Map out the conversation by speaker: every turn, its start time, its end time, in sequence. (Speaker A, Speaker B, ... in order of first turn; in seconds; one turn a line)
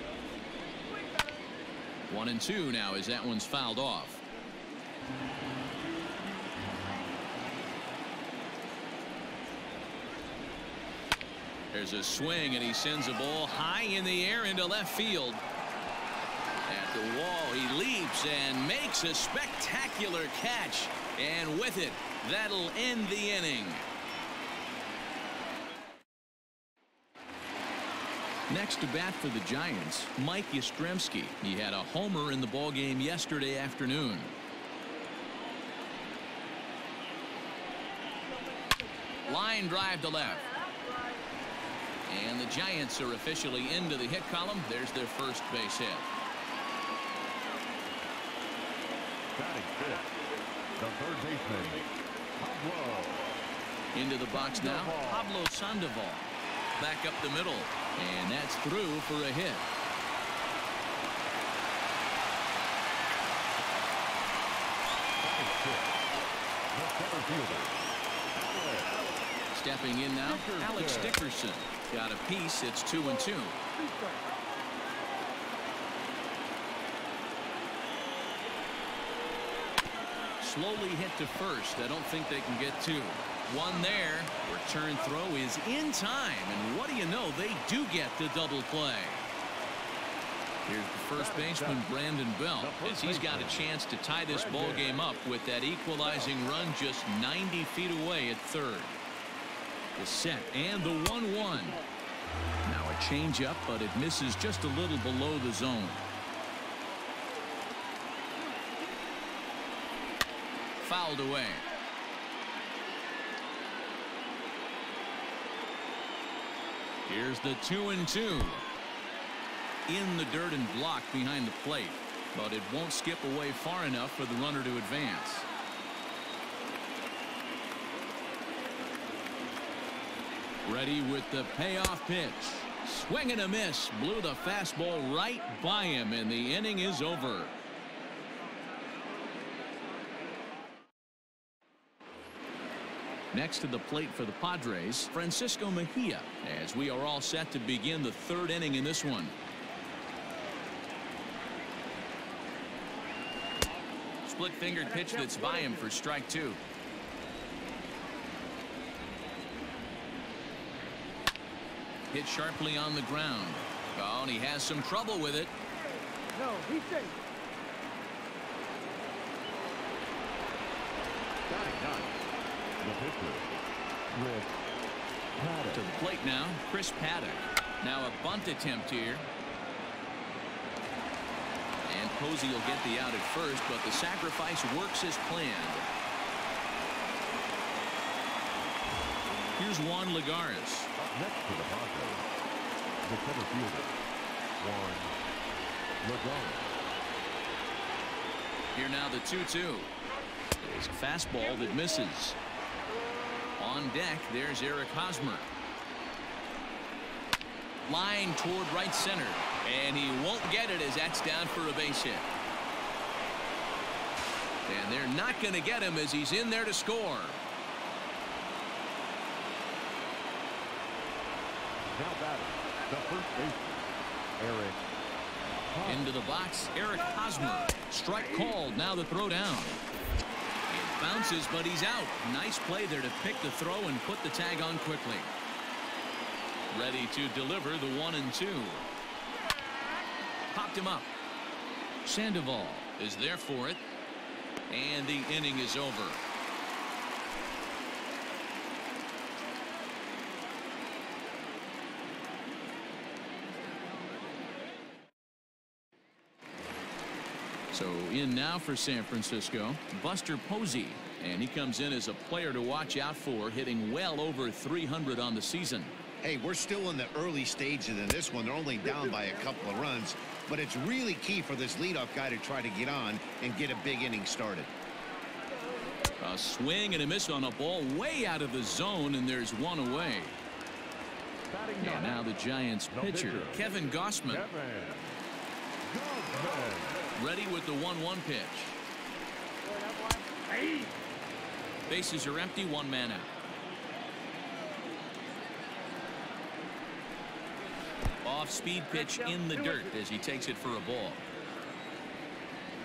Speaker A: 2.1-4.2
Speaker A: 11.7-15.4
Speaker A: 16.7-23.8
Speaker A: 28.5-34.3
Speaker B: 38.3-39.4
Speaker A: 39.2-40.5
Speaker B: 40.2-41.2
Speaker A: 42.1-46.1
Speaker C: 49.3-50.0
Speaker C: 50.8-51.8
Speaker C: 52.4-53.3
Speaker A: 53.9-56.2
Speaker C: 54.3-55.3
Speaker A: 56.8-59.6
Speaker C: 65.2-66.0
Speaker C: 66.7-67.8
Speaker C: 68.5-68.9
Speaker A: 69.5-73.6
Speaker C: 70.2-71.2
Speaker B: 70.7-71.1
Speaker B: 73.0-74.3
Speaker A: 80.4-89.2
Speaker A: 90.7-99.0
Speaker C: 91.1-91.9
Speaker C: 92.6-93.7
Speaker C: 94.3-95.0
Speaker A: 100.0-101.8
Speaker A: 102.7-106.0
Speaker A: 110.8-111.7
Speaker A: 117.0-118.6
Speaker A: 119.9-125.5
Speaker A: 130.6-137.5
Speaker A: 143.3-149.3
Speaker A: 154.2-156.6
Speaker B: 154.8-155.9
Speaker A: 162.1-165.5
Speaker B: 166.3-167.2
Speaker C: 171.5-172.2
Speaker C: 172.8-173.5
Speaker C: 174.1-174.5
Speaker C: 175.4-175.9
Speaker A: 175.7-179.2
Speaker A: 181.9-185.9
Speaker A: 189.6-190.9
Speaker C: 191.0-192.2
Speaker C: 193.0-193.9
Speaker C: 194.6-195.1
Speaker C: 196.0-196.7
Speaker A: 198.7-199.9
Speaker A: 200.6-202.4
Speaker B: 201.6-201.9
Speaker A: 203.6-205.5
Speaker A: 207.9-212.2
Speaker A: 214.7-217.4
Speaker C: 221.9-223.8
Speaker C: 224.4-224.8
Speaker C: 225.7-226.1
Speaker A: 225.8-229.8
Speaker A: 230.7-235.3
Speaker A: 236.7-238.8
Speaker A: 240.5-241.1
Speaker A: 242.0-243.8
Speaker A: 244.7-246.2
Speaker A: 257.7-265.9
Speaker D: 266.2-274.7
Speaker B: 268.8-270.0
Speaker B: 275.7-275.9
Speaker A: 276.2-280.4
Speaker C: 281.5-283.7
Speaker A: 281.8-284.4
Speaker C: 284.2-285.1
Speaker C: 285.9-287.1
Speaker A: 287.1-288.8
Speaker B: 289.6-290.9
Speaker A: 291.9-293.3
Speaker A: 298.2-301.2
Speaker B: 298.9-300.0